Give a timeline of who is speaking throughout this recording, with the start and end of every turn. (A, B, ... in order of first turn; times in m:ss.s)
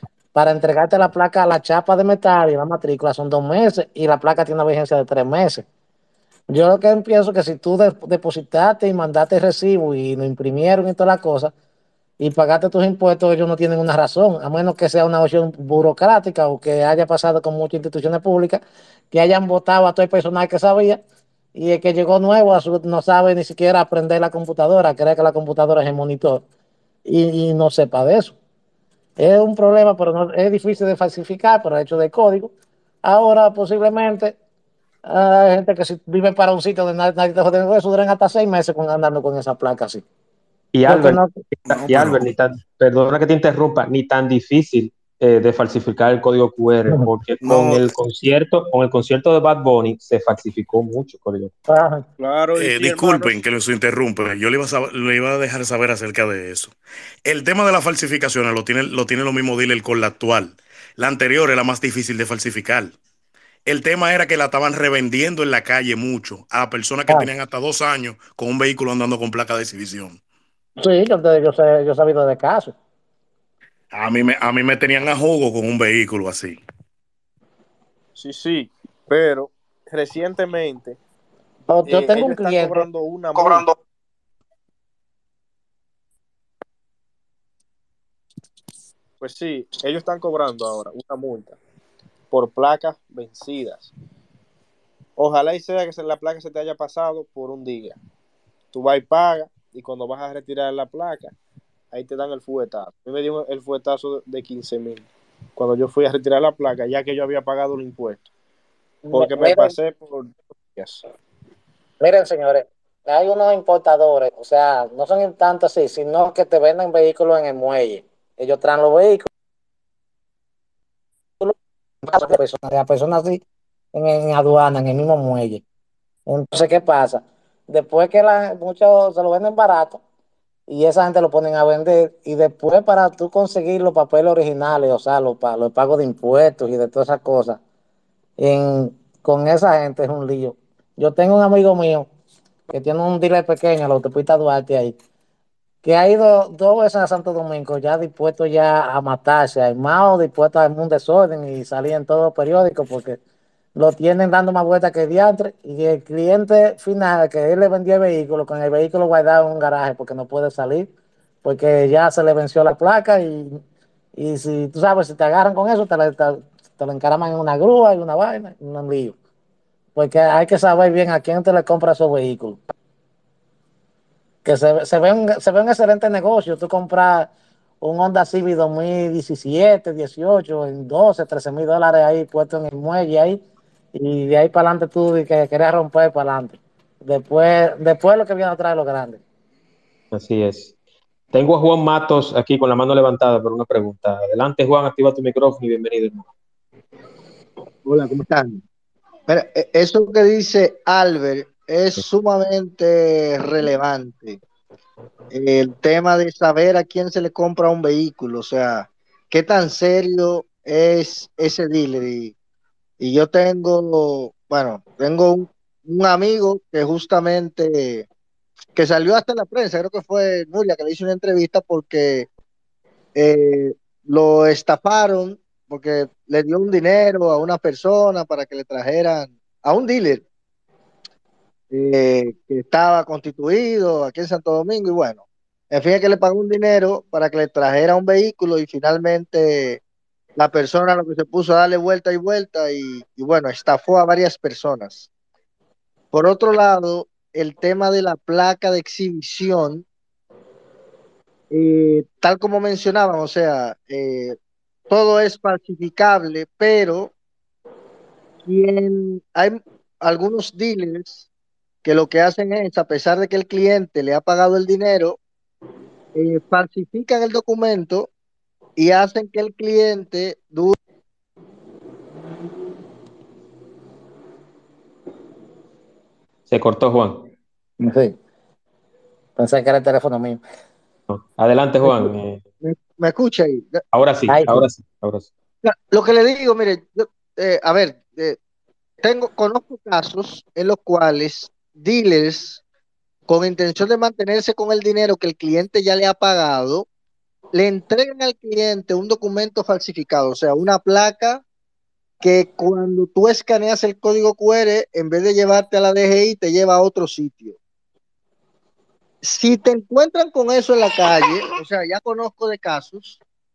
0:00.3-0:05.6 A
0:06.5-0:11.5 A
0:12.2-0:21.0 A
0:21.5-0:26.4 A
0:27.0-0:28.3 A
0:29.2-0:32.5 A
0:33.0-0:34.4 A
0:35.0-0:40.0 A
0:40.7-0:41.2 B
0:40.9-0:41.4 A
0:41.7-0:42.2 C
0:41.8-0:51.5 B
0:47.4-0:47.9 C
0:51.7-0:52.0 A
0:52.2-0:53.3 D
0:52.6-0:56.7 C
0:57.3-1:02.9 C
1:03.7-1:10.2 C
1:10.8-1:12.7 A
1:13.9-1:16.6 C
1:18.2-1:21.0 D
1:21.7-1:22.8 A
1:21.9-1:23.7 D
1:29.2-1:31.6 D
1:32.3-1:33.9 D
1:35.2-1:38.0 D
1:38.7-1:41.3 D
1:41.9-1:48.3 D
1:49.0-1:49.7 A
1:49.1-1:51.0 D
1:52.0-1:59.3 A
2:01.4-2:03.4 A
2:03.9-2:05.6 A
2:06.3-2:10.0 A
2:10.7-2:17.6 A
2:18.4-2:22.1 A
2:22.7-2:24.9 A
2:25.8-2:33.2 A
2:33.8-2:40.9 A
2:41.4-2:43.6 A
2:44.2-2:49.2 A
2:50.0-2:52.6 A
2:54.4-2:57.3 A
2:57.8-3:03.4 A
3:03.9-3:09.2 A
3:10.1-3:10.7 B
3:11.3-3:16.3 B
3:17.8-3:18.6 E
3:19.3-3:24.4 E
3:25.3-3:32.3 E
3:33.0-3:38.1 E
3:38.8-3:42.3 E
3:43.1-3:50.2 E
3:51.7-3:59.8 E
4:00.4-4:05.1 E
4:06.1-4:09.8 E
4:11.5-4:14.4 E
4:14.9-4:17.1 E
4:18.4-4:21.3 E
4:21.8-4:25.2 E
4:26.1-4:28.1 E
4:28.8-4:30.8 E
4:36.5-4:37.3 B
4:37.8-4:38.1 A
4:39.4-4:40.4 A
4:41.1-4:42.4 B
4:42.6-4:43.8 E
4:43.9-4:45.3 B
4:44.3-4:44.6 A
4:45.6-4:48.4 E
4:49.0-4:52.6 E
4:53.3-4:56.8 E
4:57.5-5:01.4 E
5:02.2-5:07.6 E
5:09.2-5:13.2 E